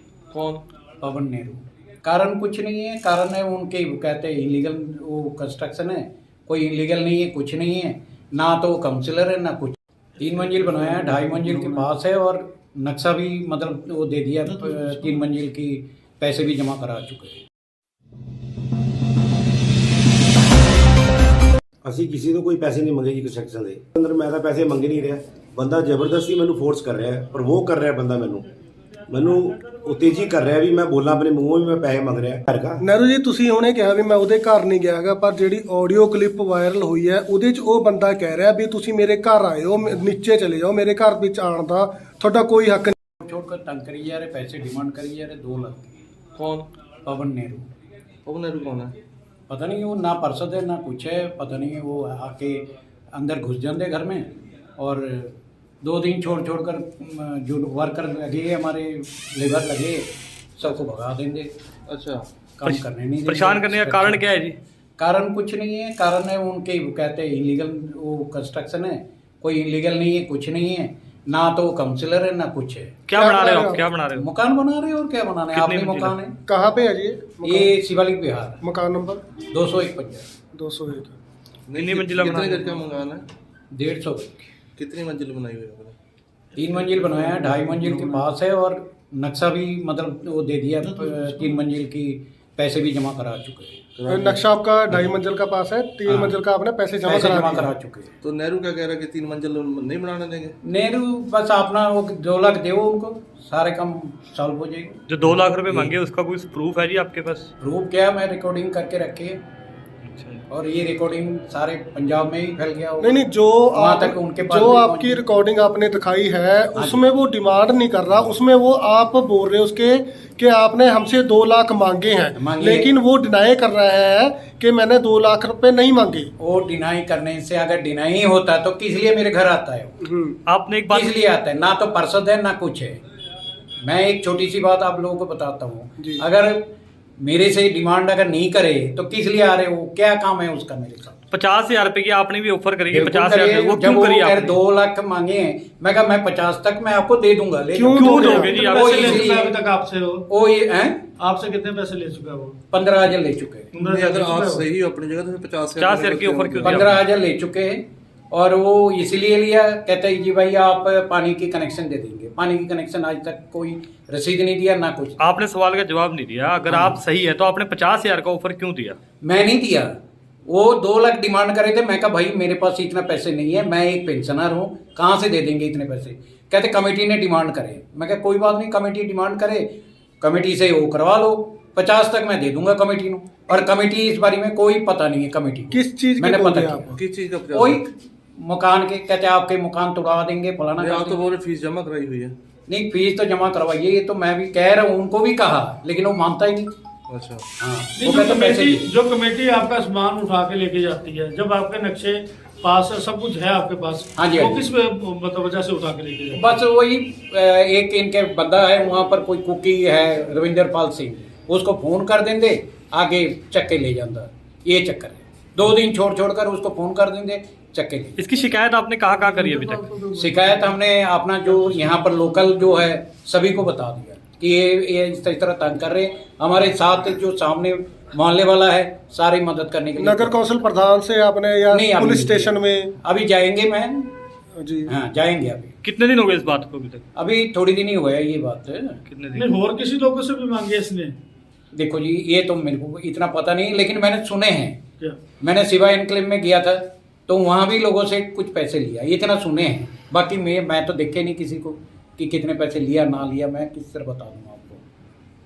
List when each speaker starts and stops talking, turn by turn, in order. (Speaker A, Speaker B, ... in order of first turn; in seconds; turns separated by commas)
Speaker A: 0.3-0.6, Speaker B: 1.0-17.4, Speaker C: 21.8-28.5, Speaker C: 29.1-32.8, Speaker D: 32.8-43.0, Speaker B: 43.2-45.9, Speaker A: 46.3-46.7, Speaker B: 47.0-47.6, Speaker A: 48.2-49.0, Speaker B: 49.5-60.1, Speaker B: 60.6-61.5, Speaker A: 61.9-62.3, Speaker B: 62.6-64.2, Speaker E: 62.6-64.6, Speaker B: 65.0-73.0, Speaker E: 73.1-74.3, Speaker D: 73.1-73.8, Speaker B: 74.2-76.3, Speaker E: 75.5-76.2, Speaker D: 76.5-77.7, Speaker B: 77.4-78.6, Speaker D: 78.6-79.2, Speaker B: 79.5-80.3, Speaker D: 80.5-81.2, Speaker A: 81.7-83.3, Speaker E: 81.7-82.8, Speaker B: 83.7-84.4, Speaker A: 84.8-86.0, Speaker B: 86.5-93.8, Speaker F: 87.2-88.0, Speaker D: 94.1-97.7, Speaker B: 97.0-98.1, Speaker A: 98.2-100.5, Speaker B: 100.6-105.0, Speaker E: 105.1-107.5, Speaker B: 107.6-109.4, Speaker E: 110.0-110.4, Speaker B: 110.5-115.2, Speaker D: 113.0-126.3, Speaker B: 116.8-117.0, Speaker B: 122.3-122.9, Speaker B: 126.4-130.1, Speaker D: 130.1-130.3, Speaker E: 130.5-131.1, Speaker B: 130.9-133.0, Speaker B: 133.8-141.2, Speaker E: 141.3-144.6, Speaker B: 142.9-149.6, Speaker D: 147.7-148.6, Speaker E: 148.0-149.3, Speaker F: 148.2-150.2, Speaker B: 150.3-151.0, Speaker F: 151.2-152.6, Speaker B: 152.7-153.7, Speaker F: 153.7-154.6, Speaker A: 153.8-156.9, Speaker E: 155.8-156.9, Speaker B: 156.6-165.2, Speaker E: 165.2-169.0, Speaker B: 166.7-167.0, Speaker B: 169.2-170.0, Speaker B: 170.5-179.7, Speaker B: 180.2-187.0, Speaker D: 185.7-186.9, Speaker A: 186.9-187.8, Speaker B: 187.5-191.2, Speaker A: 190.8-192.3, Speaker B: 192.7-196.7, Speaker A: 197.1-197.4, Speaker B: 197.6-198.9, Speaker F: 198.0-206.4, Speaker B: 204.2-204.6, Speaker B: 206.3-218.3, Speaker E: 218.2-219.9, Speaker B: 220.0-230.3, Speaker D: 230.0-232.9, Speaker B: 231.7-234.1, Speaker D: 234.6-234.9, Speaker B: 234.9-235.7, Speaker E: 235.8-237.0, Speaker B: 237.1-239.0, Speaker E: 239.1-239.4, Speaker F: 239.3-241.2, Speaker B: 241.7-244.8, Speaker B: 245.4-254.8